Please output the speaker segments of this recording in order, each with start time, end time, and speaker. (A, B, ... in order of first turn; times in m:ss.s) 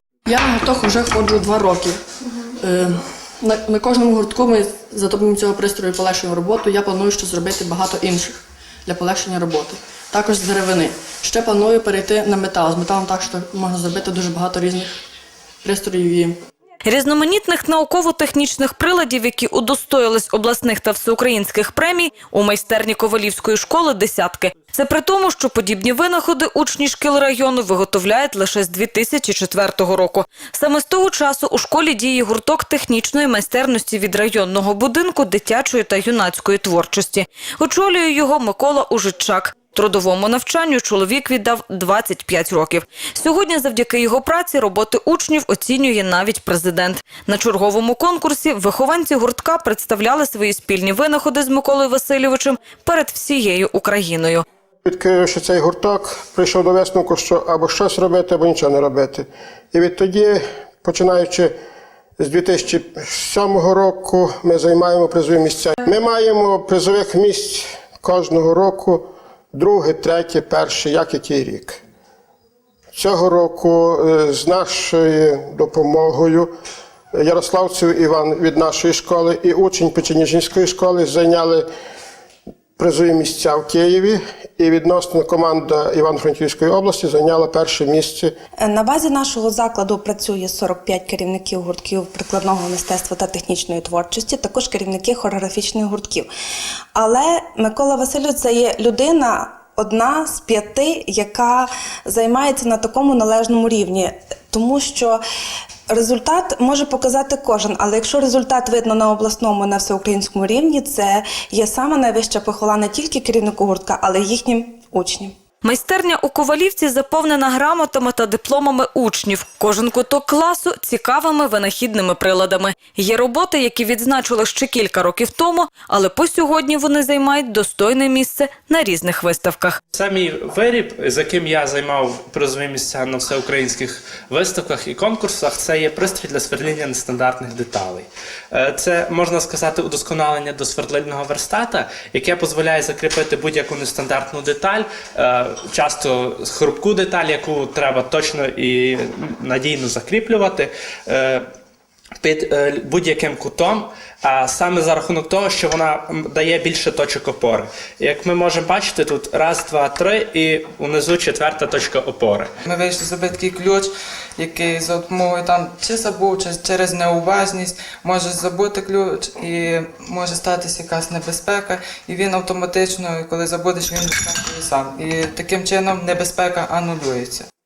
0:00.3-0:15.0 A
0:15.6-0:16.4 A
0:16.8-0:54.4 B
0:54.8-1:01.5 C
1:02.2-1:11.8 C
1:12.9-1:16.5 C
1:17.1-1:21.7 C
1:22.8-1:28.3 C
1:28.6-1:36.3 D
1:37.0-1:45.2 D
1:45.9-1:55.3 D
1:55.6-2:09.8 B
2:09.9-2:31.5 E
2:32.2-2:42.5 E
2:42.7-2:57.4 F